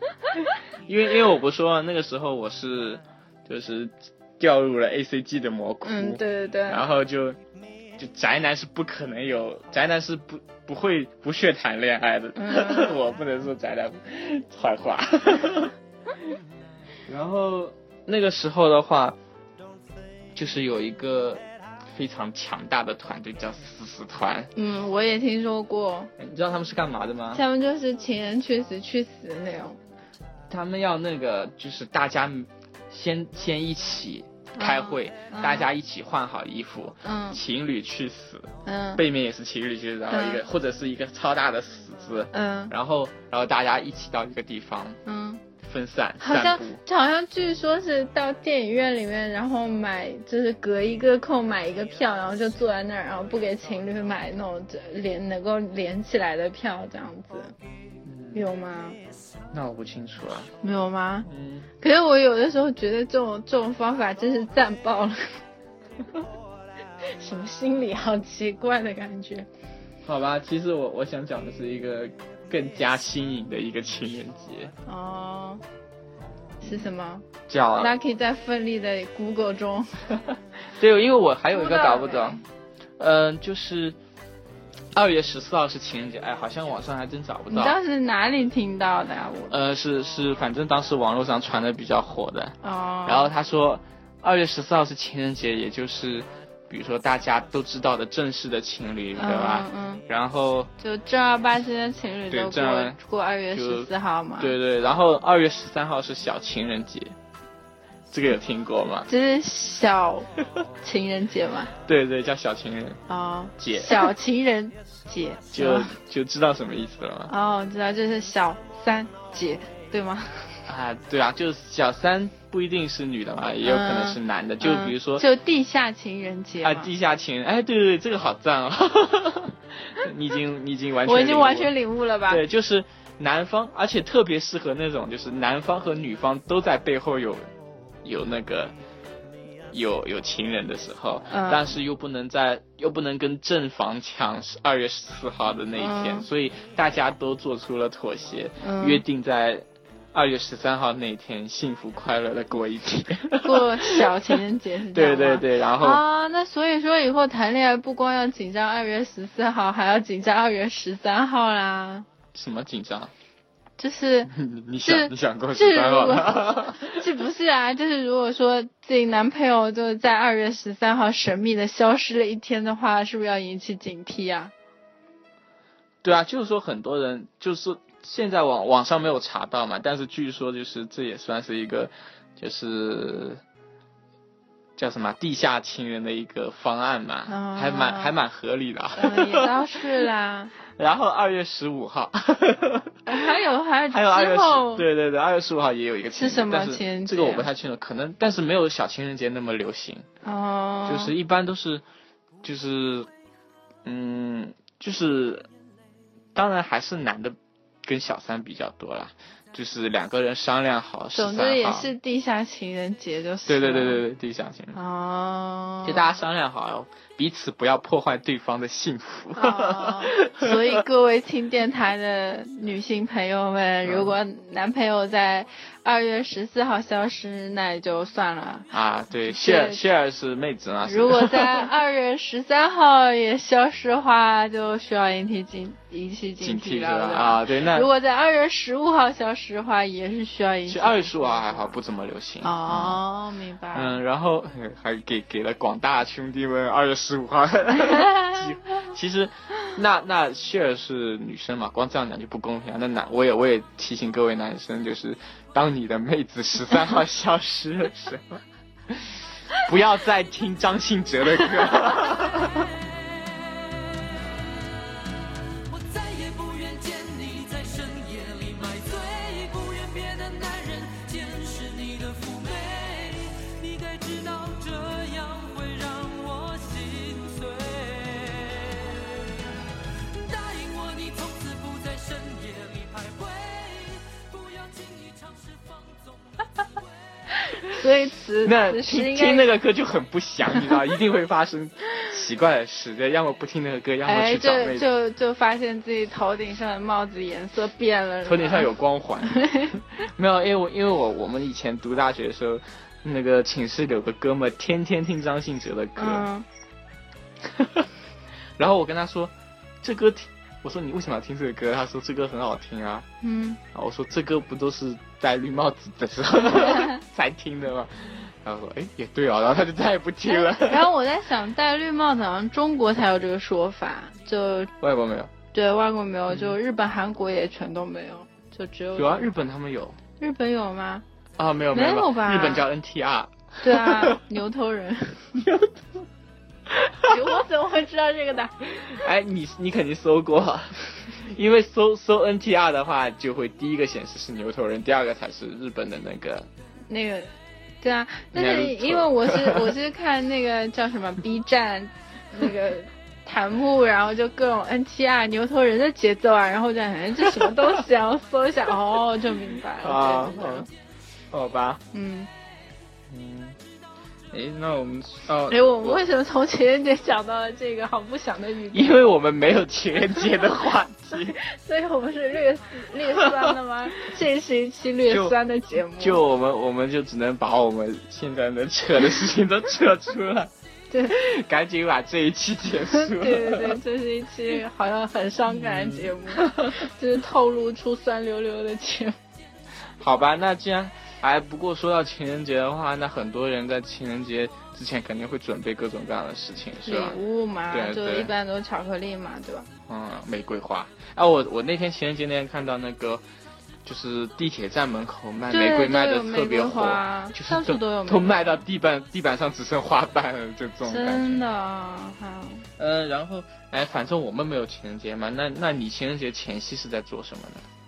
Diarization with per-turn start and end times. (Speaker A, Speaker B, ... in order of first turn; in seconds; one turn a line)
Speaker A: 0.9-7.4
Speaker B: 5.8-6.8
Speaker A: 8.0-15.7
Speaker B: 12.4-13.0
Speaker A: 17.1-19.2
Speaker A: 20.3-24.5
Speaker B: 24.6-26.1
Speaker A: 26.2-27.4
Speaker B: 27.3-29.8
Speaker A: 30.5-45.0
Speaker B: 34.6-35.7
Speaker B: 37.0-37.4
Speaker B: 38.6-39.0
Speaker B: 40.1-40.4
Speaker B: 42.3-42.7
Speaker B: 45.0-45.4
Speaker A: 45.6-46.8
Speaker B: 46.2-57.5
Speaker A: 58.0-58.5
Speaker B: 58.3-59.0
Speaker A: 59.5-60.5
Speaker B: 60.6-61.3
Speaker A: 61.3-61.7
Speaker B: 61.8-65.2
Speaker B: 67.1-69.5
Speaker A: 70.0-74.7
Speaker B: 74.9-75.6
Speaker B: 76.6-80.1
Speaker A: 77.5-77.9
Speaker A: 80.8-82.4
Speaker B: 81.5-82.4
Speaker A: 83.0-84.0
Speaker A: 84.9-87.8
Speaker B: 87.5-89.5
Speaker A: 89.5-100.7
Speaker B: 92.6-93.3
Speaker B: 99.2-100.0
Speaker B: 100.8-104.5
Speaker A: 102.3-103.0
Speaker A: 103.5-107.2
Speaker A: 108.1-109.1
Speaker B: 109.1-110.3
Speaker B: 110.8-111.7
Speaker A: 111.8-113.0
Speaker B: 113.1-116.0
Speaker A: 113.6-114.1
Speaker A: 115.5-117.3
Speaker B: 117.3-120.7
Speaker A: 120.7-125.2
Speaker B: 123.6-126.9
Speaker A: 126.6-131.7
Speaker B: 131.0-132.4
Speaker A: 132.3-137.5
Speaker A: 138.0-138.7
Speaker A: 139.7-154.3
Speaker B: 141.3-141.7
Speaker B: 145.8-146.3
Speaker B: 148.6-149.0
Speaker B: 153.4-162.1
Speaker A: 154.9-156.0
Speaker A: 162.3-163.1
Speaker B: 163.8-164.3
Speaker A: 164.3-167.0
Speaker B: 164.8-174.5
Speaker A: 176.0-183.4
Speaker A: 184.8-189.5
Speaker B: 187.3-188.2
Speaker B: 189.0-190.5
Speaker A: 190.7-193.2
Speaker B: 193.1-194.9
Speaker A: 193.9-200.1
Speaker B: 196.1-197.5
Speaker B: 200.2-201.2
Speaker A: 200.9-201.8
Speaker A: 202.4-203.1
Speaker A: 203.8-205.5
Speaker A: 206.3-211.9
Speaker B: 211.1-214.0
Speaker A: 213.5-214.8
Speaker B: 214.7-216.2
Speaker A: 215.8-220.8
Speaker B: 219.3-228.7
Speaker A: 223.8-224.1
Speaker A: 228.7-231.7
Speaker B: 229.3-229.8
Speaker B: 230.8-241.8
Speaker A: 236.4-237.9
Speaker A: 240.7-243.0
Speaker B: 242.4-244.0
Speaker A: 243.7-262.7
Speaker C: 262.5-264.2
Speaker C: 265.7-279.3
Speaker C: 280.1-286.5
Speaker B: 287.5-289.5
Speaker A: 288.4-294.9
Speaker B: 294.1-298.7
Speaker A: 298.2-306.3
Speaker B: 299.3-299.7
Speaker B: 306.0-306.5
Speaker A: 307.5-307.9
Speaker A: 308.6-313.1
Speaker B: 313.2-313.6
Speaker A: 313.7-320.9
Speaker B: 316.6-316.9
Speaker B: 320.3-324.7
Speaker A: 324.8-325.3
Speaker B: 325.5-329.3
Speaker A: 326.3-326.6
Speaker A: 328.9-330.0
Speaker B: 330.2-331.1
Speaker A: 331.4-334.2
Speaker B: 331.7-332.7
Speaker B: 333.6-335.5
Speaker A: 335.4-335.8
Speaker A: 336.7-337.2
Speaker B: 337.0-338.6
Speaker A: 338.8-346.5
Speaker B: 346.9-360.7
Speaker A: 348.3-349.8
Speaker A: 359.8-360.7
Speaker A: 361.3-361.8
Speaker B: 361.9-362.3
Speaker A: 363.1-363.6
Speaker A: 364.3-366.0
Speaker B: 365.5-369.0
Speaker A: 368.7-371.4
Speaker B: 371.2-376.2
Speaker A: 373.2-373.5
Speaker A: 375.1-375.4
Speaker A: 376.0-380.5
Speaker B: 380.9-381.2
Speaker A: 381.1-383.8
Speaker B: 382.9-389.2
Speaker A: 385.5-386.8
Speaker A: 390.0-398.3
Speaker B: 396.8-399.7
Speaker A: 399.9-403.2
Speaker A: 403.9-411.4
Speaker B: 405.5-408.6
Speaker B: 410.8-412.7
Speaker A: 412.8-417.7